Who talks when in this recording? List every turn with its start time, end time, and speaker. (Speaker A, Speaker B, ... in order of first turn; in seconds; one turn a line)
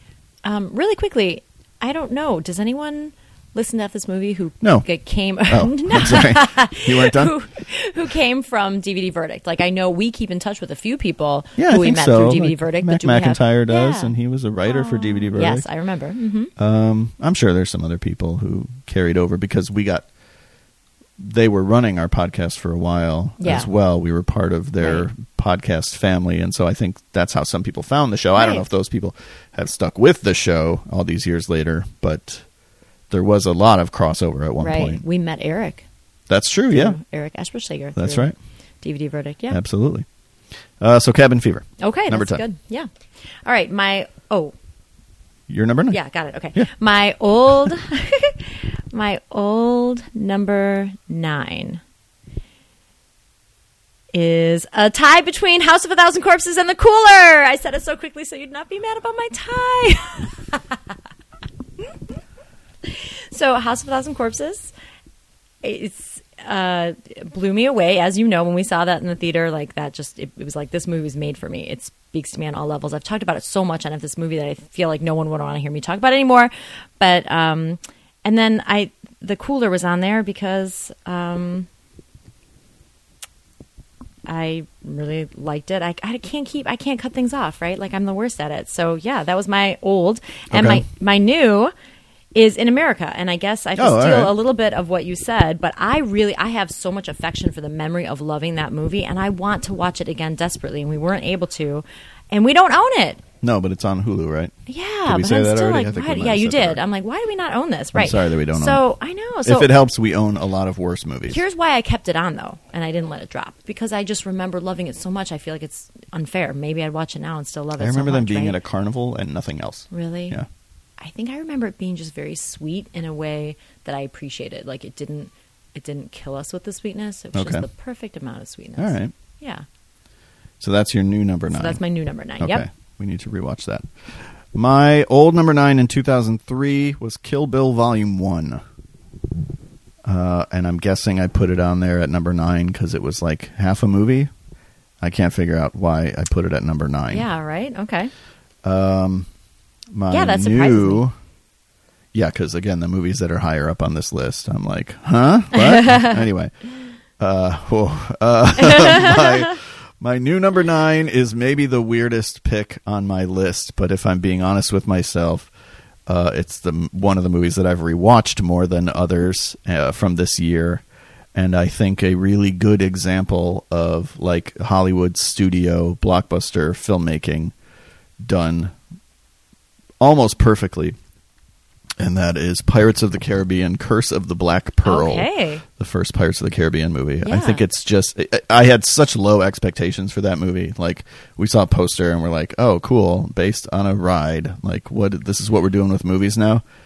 Speaker A: 0.4-14.1
Speaker B: 4.6-4.8
Speaker B: 5.5-7.3
Speaker B: 11.6-15.6
Speaker A: 14.7-16.5
Speaker B: 16.6-20.1
Speaker B: 21.2-32.5
Speaker A: 23.4-23.7
Speaker A: 24.8-25.1
Speaker A: 28.4-28.6
Speaker B: 33.1-35.0
Speaker A: 34.6-35.9
Speaker B: 36.3-37.0
Speaker A: 36.7-38.3
Speaker B: 38.0-38.3
Speaker A: 38.8-39.6
Speaker B: 39.5-40.0
Speaker B: 40.8-42.4
Speaker A: 41.8-42.9
Speaker A: 43.4-44.5
Speaker B: 45.5-46.0
Speaker A: 45.9-51.8
Speaker A: 54.1-60.8
Speaker A: 62.8-64.7
Speaker A: 65.6-81.7
Speaker A: 84.2-91.7
Speaker B: 90.5-90.8
Speaker A: 92.3-103.2
Speaker B: 93.8-94.3
Speaker B: 103.4-104.5
Speaker A: 104.7-109.7
Speaker B: 105.0-106.8
Speaker B: 107.9-108.8
Speaker B: 109.4-111.4
Speaker A: 111.3-118.6
Speaker B: 117.8-120.5
Speaker A: 119.9-120.4
Speaker A: 121.0-129.6
Speaker B: 127.3-127.7
Speaker B: 128.8-129.1
Speaker B: 130.6-131.8
Speaker A: 131.5-132.7
Speaker B: 132.4-138.6
Speaker B: 140.0-144.3
Speaker B: 145.0-147.2
Speaker A: 147.1-148.1
Speaker B: 148.6-149.3
Speaker B: 149.9-151.1
Speaker A: 150.1-151.0
Speaker B: 152.1-156.5
Speaker A: 155.8-156.1
Speaker B: 157.2-165.5
Speaker A: 158.7-159.2
Speaker B: 166.1-177.5
Speaker B: 178.2-178.7
Speaker B: 180.0-180.9
Speaker B: 182.0-196.6
Speaker A: 184.8-185.6
Speaker A: 187.2-187.6